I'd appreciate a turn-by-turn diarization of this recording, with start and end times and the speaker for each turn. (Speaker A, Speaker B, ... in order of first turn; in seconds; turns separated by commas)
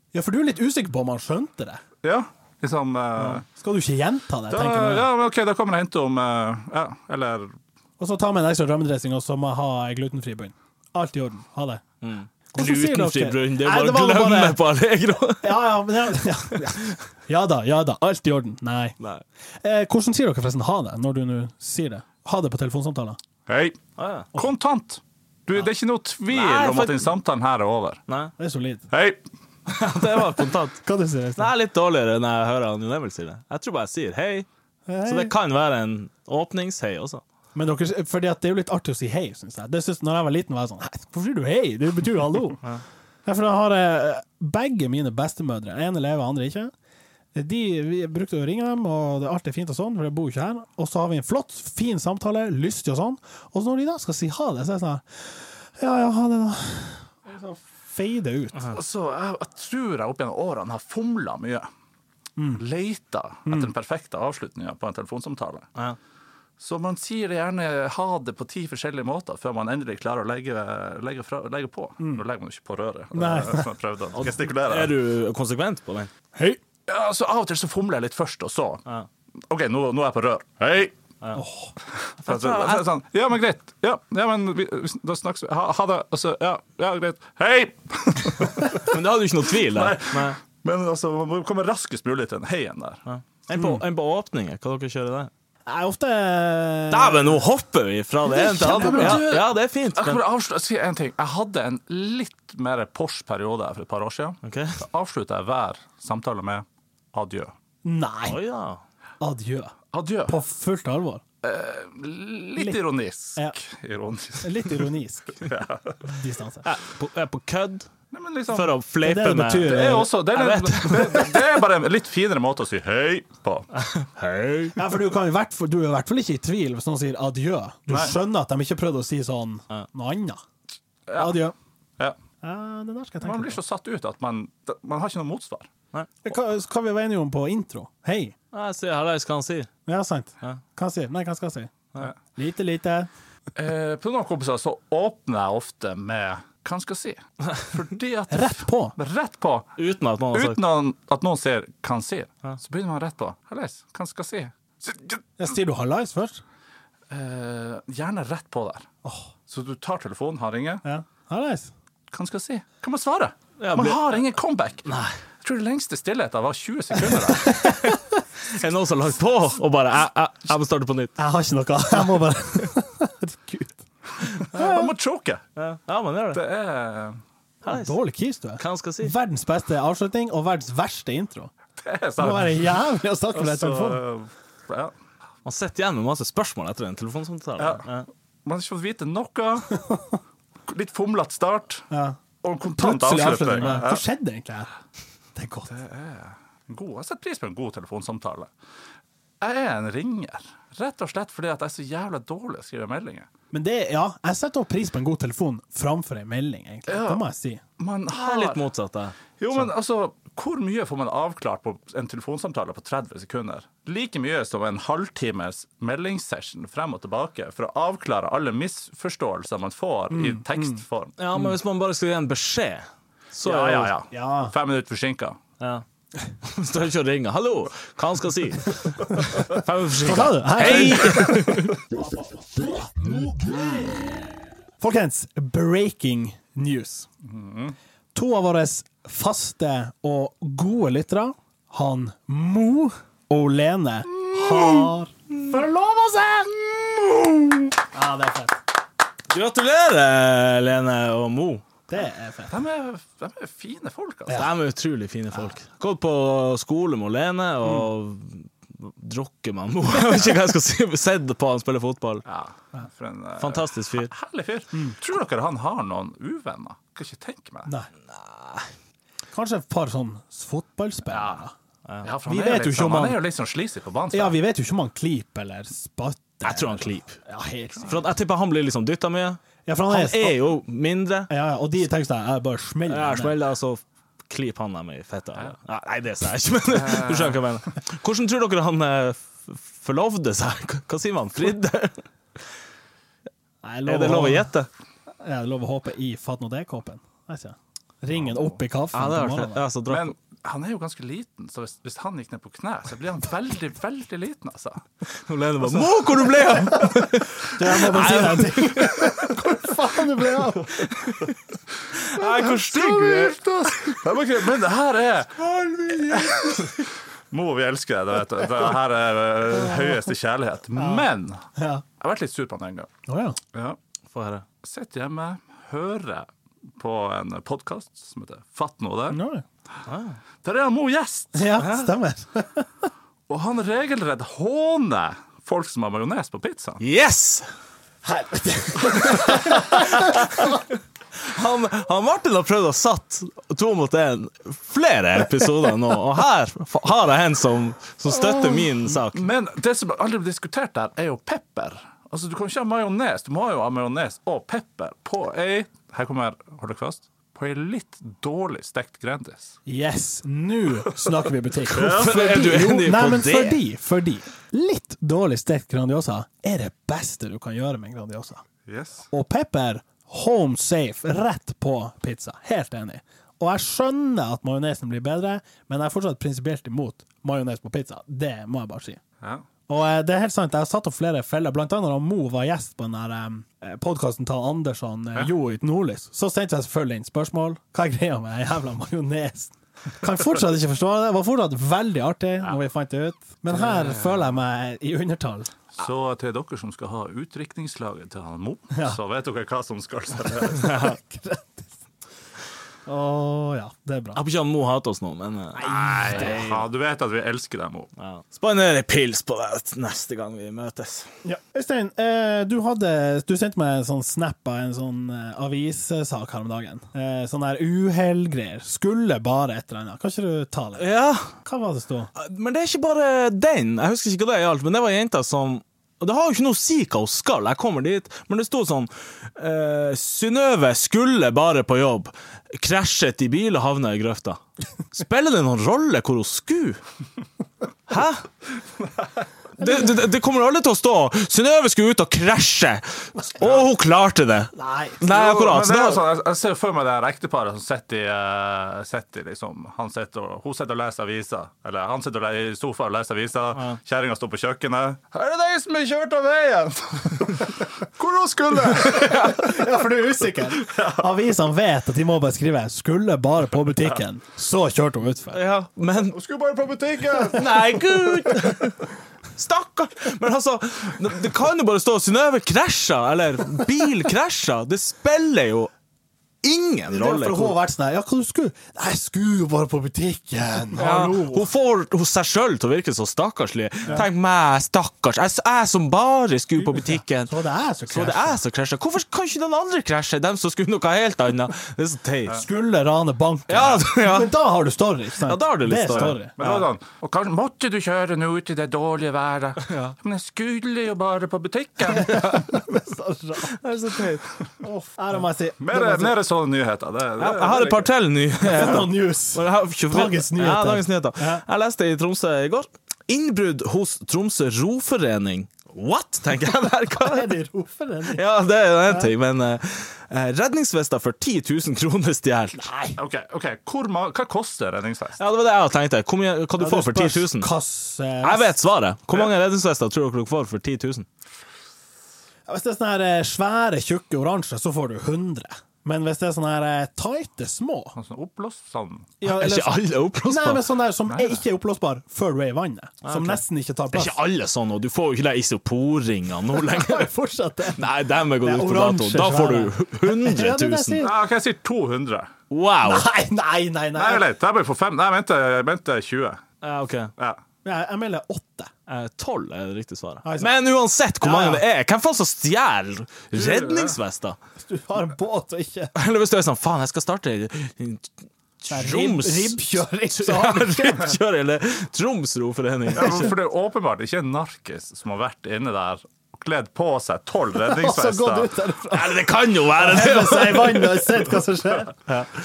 Speaker A: 0.1-1.8, Speaker B: 2.0-3.4, Speaker A: 3.2-5.1, Speaker B: 4.5-7.5, Speaker A: 8.0-11.8, Speaker C: 12.0-15.6, Speaker A: 12.5-14.6, Speaker A: 15.4-18.9, Speaker A: 19.6-23.2, Speaker B: 23.5-28.0, Speaker C: 24.0-24.3, Speaker C: 26.3-27.1, Speaker C: 28.1-28.3, Speaker A: 28.4-28.8, Speaker B: 28.9-29.2, Speaker C: 29.7-30.8, Speaker A: 30.8-31.5, Speaker C: 31.4-34.5, Speaker A: 34.9-35.3, Speaker C: 35.0-37.2, Speaker A: 37.5-42.6, Speaker A: 43.2-46.7, Speaker A: 47.3-58.7, Speaker B: 58.7-61.7, Speaker A: 62.4-62.6, Speaker B: 62.6-65.7, Speaker A: 63.5-63.7, Speaker B: 66.6-75.0, Speaker A: 73.1-73.7, Speaker C: 74.1-76.1, Speaker B: 76.9-78.8, Speaker B: 79.5-80.9, Speaker A: 81.3-81.7, Speaker B: 82.0-89.0, Speaker C: 82.2-82.9, Speaker C: 88.8-90.4, Speaker B: 89.6-93.0, Speaker C: 93.0-95.3, Speaker A: 93.5-93.8, Speaker A: 95.7-97.4, Speaker C: 96.9-100.2, Speaker A: 98.2-99.3, Speaker B: 98.5-107.5, Speaker C: 104.4-104.8, Speaker A: 107.8-108.4, Speaker C: 108.2-108.8, Speaker A: 109.2-109.8, Speaker B: 109.9-110.3, Speaker A: 110.3-111.2, Speaker B: 111.4-114.9, Speaker A: 114.4-115.5, Speaker B: 115.4-116.0, Speaker A: 116.0-116.7, Speaker C: 116.6-117.9, Speaker B: 118.1-118.7, Speaker C: 118.5-121.5, Speaker A: 119.0-120.2, Speaker B: 119.6-123.7, Speaker C: 123.7-124.8, Speaker A: 124.7-130.4, Speaker B: 127.9-128.1, Speaker B: 131.1-131.4, Speaker A: 131.2-131.5, Speaker A: 132.4-133.6, Speaker B: 133.2-135.7, Speaker A: 136.2-138.3, Speaker C: 138.5-139.7, Speaker A: 139.8-141.7, Speaker A: 142.3-143.1, Speaker B: 143.5-149.7, Speaker A: 148.3-148.9, Speaker C: 149.8-150.6, Speaker B: 150.3-155.2, Speaker A: 155.4-156.4, Speaker B: 157.1-158.9, Speaker A: 159.0-159.3, Speaker B: 159.5-160.8, Speaker A: 160.8-161.7, Speaker B: 162.1-167.6, Speaker C: 163.6-164.2, Speaker C: 164.9-165.1, Speaker A: 167.0-168.2, Speaker C: 168.4-171.2, Speaker A: 171.2-174.9, Speaker B: 174.4-175.4, Speaker C: 175.6-176.4, Speaker B: 176.3-177.2, Speaker A: 177.6-181.5, Speaker C: 177.6-177.9, Speaker C: 178.6-179.1, Speaker B: 181.8-182.8, Speaker A: 182.2-184.0, Speaker B: 183.3-184.9, Speaker C: 185.4-188.1, Speaker B: 187.6-187.9, Speaker B: 188.4-189.8, Speaker A: 189.7-190.1, Speaker B: 190.7-191.9, Speaker A: 191.9-192.2, Speaker B: 192.4-194.0, Speaker A: 192.8-194.7, Speaker A: 195.3-195.7, Speaker B: 195.7-198.5, Speaker B: 199.4-203.3, Speaker A: 203.5-207.6, Speaker B: 206.9-207.2, Speaker B: 207.8-208.6, Speaker C: 208.1-209.2, Speaker B: 209.4-221.2, Speaker A: 220.1-220.8, Speaker C: 221.2-223.9, Speaker B: 223.4-225.4, Speaker A: 224.1-224.5, Speaker C: 225.6-225.8, Speaker C: 226.4-231.8, Speaker A: 229.1-231.8, Speaker B: 230.9-231.2, Speaker A: 233.0-233.6, Speaker A: 234.8-237.1, Speaker B: 237.2-237.8, Speaker A: 238.1-246.6, Speaker B: 244.3-244.9, Speaker B: 246.9-247.4, Speaker A: 247.9-248.6, Speaker C: 249.3-251.6, Speaker A: 251.9-252.6, Speaker B: 252.5-254.5, Speaker C: 254.3-262.2, Speaker A: 257.6-257.9, Speaker B: 262.2-267.7, Speaker C: 263.4-264.1, Speaker C: 268.1-268.7, Speaker A: 269.3-271.5, Speaker B: 271.1-271.4, Speaker B: 272.0-274.4, Speaker A: 272.2-273.2, Speaker A: 274.1-278.1, Speaker C: 276.4-277.1, Speaker C: 277.9-281.3, Speaker A: 279.6-280.4, Speaker A: 281.3-283.3, Speaker C: 282.9-292.4, Speaker B: 286.7-287.4, Speaker A: 293.6-294.5, Speaker C: 293.9-294.7, Speaker A: 295.2-299.6, Speaker B: 298.2-298.6, Speaker C: 298.9-300.1, Speaker B: 299.9-304.9, Speaker C: 305.1-309.3, Speaker A: 306.8-310.9, Speaker B: 308.8-309.1, Speaker C: 310.7-311.4, Speaker C: 311.9-313.4, Speaker B: 312.2-321.5, Speaker A: 319.6-320.0, Speaker A: 320.8-321.8, Speaker B: 322.0-322.9, Speaker A: 323.1-323.4, Speaker C: 324.1-324.4, Speaker B: 324.6-329.2, Speaker A: 329.1-329.4, Speaker C: 329.9-330.2, Speaker B: 330.4-331.6, Speaker A: 331.3-332.8, Speaker C: 331.6-331.9, Speaker B: 333.3-336.8, Speaker C: 336.8-337.5, Speaker A: 338.0-340.6, Speaker C: 339.2-349.3, Speaker B: 348.2-359.6, Speaker A: 359.7-368.4, Speaker C: 361.7-363.6, Speaker B: 361.7-362.1, Speaker B: 368.7-369.1, Speaker A: 369.1-379.0, Speaker A: 379.7-395.5, Speaker B: 393.6-394.3, Speaker B: 395.7-400.8, Speaker A: 398.7-399.0, Speaker A: 400.5-401.7, Speaker C: 400.5-401.0, Speaker A: 402.9-404.2, Speaker C: 404.1-406.6, Speaker A: 405.6-406.6, Speaker B: 405.6-407.9, Speaker C: 408.0-411.1, Speaker A: 411.2-420.9, Speaker C: 420.8-421.3, Speaker A: 421.4-422.1, Speaker C: 422.1-436.8, Speaker C: 437.9-438.3, Speaker C: 439.6-446.0, Speaker A: 444.6-445.0, Speaker B: 445.1-459.7, Speaker A: 458.8-465.4, Speaker B: 460.5-461.1, Speaker C: 465.3-466.2, Speaker B: 466.1-468.6, Speaker C: 467.2-475.7, Speaker C: 476.4-477.6, Speaker A: 476.9-481.5, Speaker C: 480.8-487.3, Speaker A: 486.6-488.4, Speaker C: 487.9-492.4, Speaker A: 492.3-496.4, Speaker C: 493.5-494.3, Speaker C: 495.2-496.6, Speaker B: 495.9-502.6, Speaker C: 499.6-499.9, Speaker A: 501.9-503.6, Speaker C: 503.5-504.3, Speaker A: 504.6-506.2, Speaker B: 505.6-507.9, Speaker C: 507.2-517.3, Speaker A: 508.4-511.4, Speaker A: 516.9-518.2, Speaker C: 518.1-522.7, Speaker A: 522.6-523.0, Speaker B: 523.0-525.2, Speaker C: 525.2-527.5, Speaker A: 526.6-528.5, Speaker C: 528.2-531.1, Speaker A: 532.5-538.0, Speaker B: 538.0-539.1, Speaker A: 539.2-544.2, Speaker C: 539.2-540.6, Speaker B: 541.1-541.4, Speaker C: 543.0-547.1, Speaker A: 546.5-547.8, Speaker C: 547.7-551.0, Speaker A: 548.4-551.2, Speaker B: 551.0-552.3, Speaker C: 552.5-553.1, Speaker A: 552.8-554.2, Speaker B: 553.9-556.4, Speaker C: 556.6-557.1, Speaker A: 557.6-558.7, Speaker C: 558.9-564.4, Speaker A: 560.2-560.5, Speaker A: 561.2-561.6, Speaker B: 563.3-564.0, Speaker A: 564.6-565.9, Speaker C: 565.9-573.3, Speaker A: 568.7-571.2, Speaker B: 572.9-578.5, Speaker A: 577.6-582.0, Speaker C: 578.9-581.3